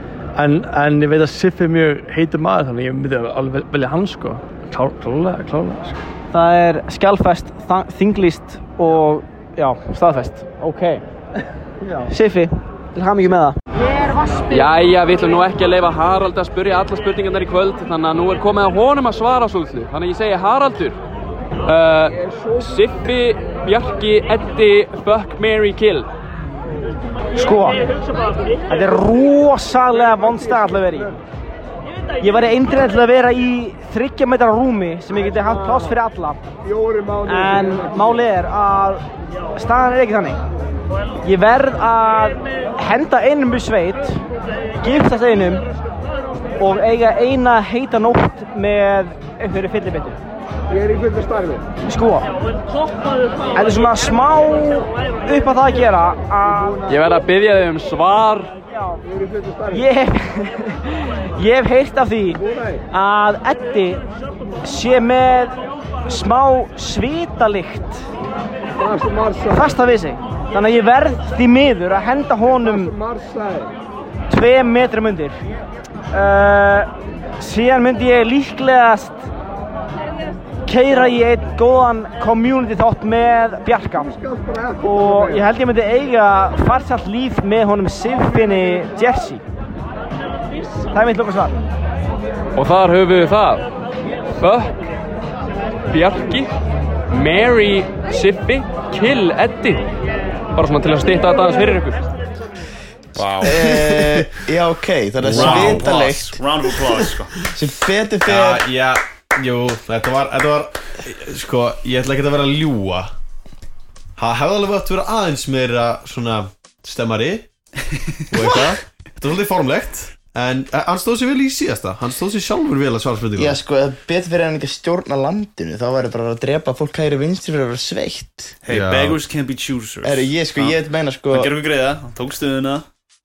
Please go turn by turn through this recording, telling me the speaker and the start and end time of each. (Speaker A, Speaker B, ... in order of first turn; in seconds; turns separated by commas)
Speaker A: 0.3-6.0, Speaker B: 6.3-11.0, Speaker B: 12.1-13.6, Speaker C: 14.5-21.0, Speaker C: 21.6-26.1, Speaker B: 27.4-27.8, Speaker B: 28.7-31.2, Speaker B: 32.2-36.4, Speaker B: 37.2-39.0, Speaker B: 39.5-40.4, Speaker B: 41.2-44.2, Speaker B: 44.8-45.6, Speaker B: 46.6-50.2, Speaker B: 51.9-52.3, Speaker B: 53.5-56.8, Speaker C: 56.9-58.5, Speaker B: 59.7-64.0, Speaker B: 64.6-68.0, Speaker B: 69.4-73.0, Speaker B: 74.3-75.4, Speaker B: 76.1-79.2, Speaker B: 80.7-84.2, Speaker B: 84.8-89.4, Speaker B: 90.9-91.6, Speaker C: 92.5-93.6, Speaker C: 94.4-94.8, Speaker C: 95.9-96.5, Speaker C: 97.1-99.8, Speaker C: 100.5-102.0, Speaker D: 103.1-103.5, Speaker E: 103.4-106.4, Speaker F: 103.4-104.2, Speaker F: 105.2-105.9, Speaker D: 105.3-107.3, Speaker E: 107.5-108.6, Speaker F: 108.2-113.1, Speaker F: 114.2-117.5, Speaker F: 118.3-123.6, Speaker E: 123.4-128.6, Speaker D: 128.6-130.8, Speaker F: 128.7-129.2, Speaker E: 130.0-131.5, Speaker D: 131.3-132.8